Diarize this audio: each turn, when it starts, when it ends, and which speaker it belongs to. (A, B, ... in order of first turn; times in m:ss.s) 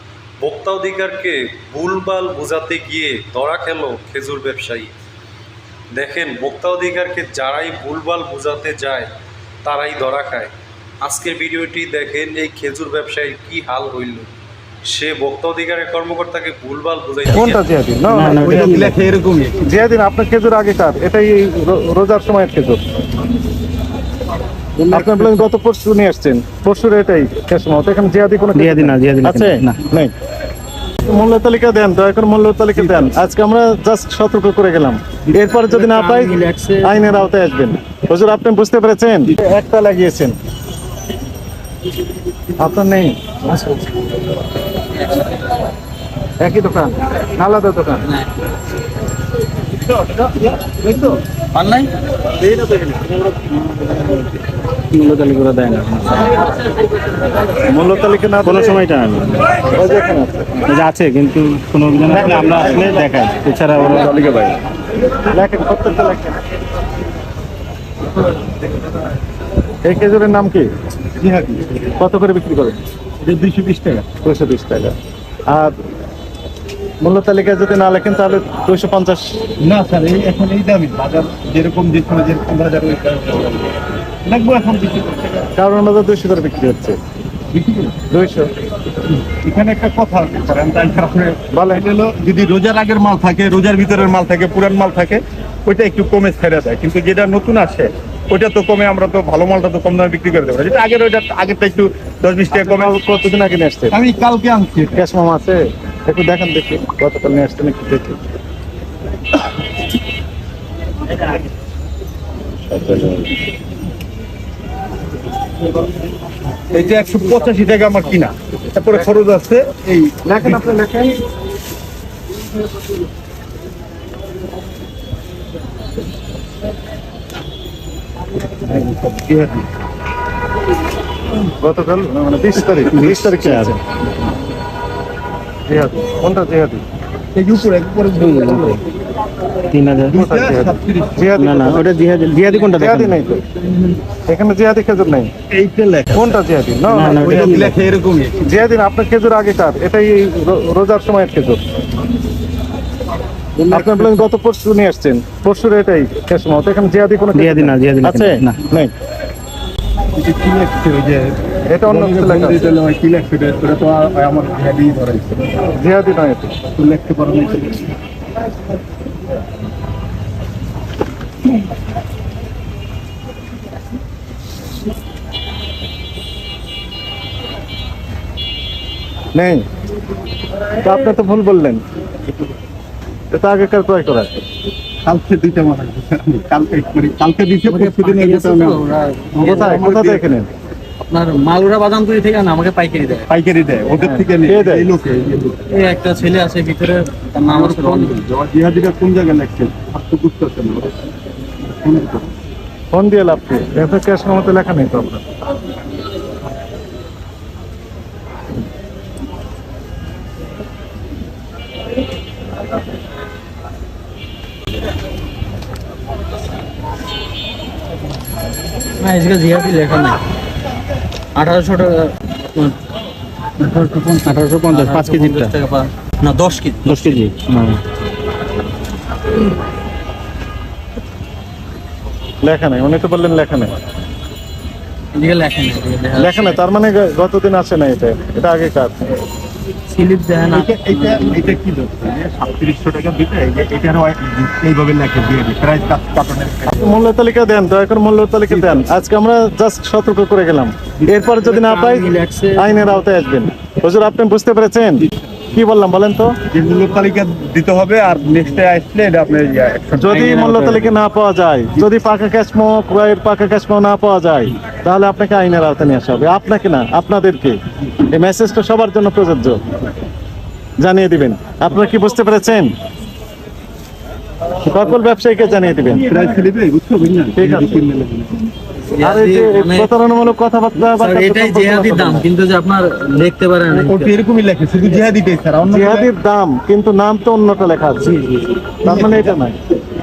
0:00.4-0:04.9 A
0:05.9-0:09.1 A
0:09.6-0:14.3 A
0:14.8-0:17.5 A
0:17.3-0:18.6 B
0:18.1-0:19.1 C
0:18.4-0:19.7 D
0:19.6-0:22.8 B
0:24.8-0:25.4 D
0:24.9-0:30.1 B
0:28.6-0:29.8 C
0:31.1-0:40.4 B
0:32.8-0:33.1 D
0:35.7-0:37.2 E
0:42.6-0:43.2 B
0:43.5-0:43.9 E
0:46.4-0:48.1 B
0:50.7-0:51.2 B
0:51.5-0:51.9 E
0:52.5-0:53.1 B
0:54.9-0:56.4 C
0:57.7-0:58.8 B
0:58.4-0:59.5 C
0:59.7-1:00.7 B
1:00.7-1:04.3 C
1:02.1-1:02.9 B
1:03.9-1:04.4 B
1:05.3-1:06.4 B
1:09.8-1:10.7 B
1:11.2-1:11.8 D
1:12.0-1:12.8 B
1:13.2-1:14.1 D
1:14.2-1:15.0 B
1:15.5-1:15.7 B
1:17.0-1:19.4 B
1:19.6-1:23.7 D
1:24.3-1:25.5 D
1:25.6-1:27.0 B
1:27.5-1:28.0 D
1:28.1-1:28.5 B
1:29.3-1:43.0 D
1:31.5-1:31.9 B
1:42.5-1:44.0 B
1:43.9-1:45.0 D
1:45.0-1:48.2 B
1:52.7-1:53.2 B
1:56.7-2:00.8 D
2:00.2-2:01.2 B
2:08.6-2:09.7 D
2:11.6-2:13.8 B
2:12.9-2:13.8 C
2:15.7-2:16.8 B
2:17.4-2:18.8 D
2:18.2-2:18.8 C
2:19.7-2:20.2 C
2:20.1-2:21.3 D
2:20.2-2:21.9 B
2:21.4-2:23.2 C
2:22.7-2:23.4 B
2:24.3-2:25.3 B
2:25.5-2:26.4 D
2:26.1-2:27.3 B
2:26.9-2:27.8 C
2:27.2-2:28.6 D
2:28.4-2:31.6 B
2:33.6-2:34.2 D
2:33.7-2:38.9 B
2:37.3-2:38.6 C
2:40.1-2:41.3 D
2:41.7-2:42.6 B
2:41.9-2:45.6 D
2:45.8-2:46.6 B
2:46.7-2:47.9 D
2:59.3-2:59.6 B
3:00.8-3:01.8 B
3:03.3-3:04.4 B
3:05.0-3:10.4 D
3:07.7-3:09.8 E
3:09.4-3:10.5 B
3:11.1-3:13.3 E
3:13.3-3:15.6 D
3:14.0-3:14.9 B
3:15.7-3:18.1 E
3:17.4-3:21.0 D
3:21.7-3:22.3 D
3:22.9-3:25.2 B
3:39.0-3:40.2 E
3:41.4-3:42.8 E
3:43.6-3:47.2 E
3:44.3-3:45.6 C
3:46.8-3:47.8 C
3:52.4-3:53.7 B
3:55.1-3:56.6 E
3:56.2-3:59.2 B
3:59.9-4:01.5 E
4:00.4-4:06.8 D
4:06.8-4:16.4 B
4:08.5-4:08.9 D
4:11.4-4:12.9 E
4:15.0-4:15.5 D
4:16.5-4:20.2 D
4:20.0-4:29.6 B
4:20.1-4:20.9 C
4:30.8-4:32.7 B
4:34.6-4:36.0 B
4:36.0-4:38.4 D
4:37.4-4:37.8 B
4:38.9-4:39.9 E
4:39.0-4:42.3 B
4:40.8-4:44.1 E
4:43.7-4:46.1 D
4:45.7-4:48.2 B
4:48.0-4:49.2 E
4:48.8-4:49.6 B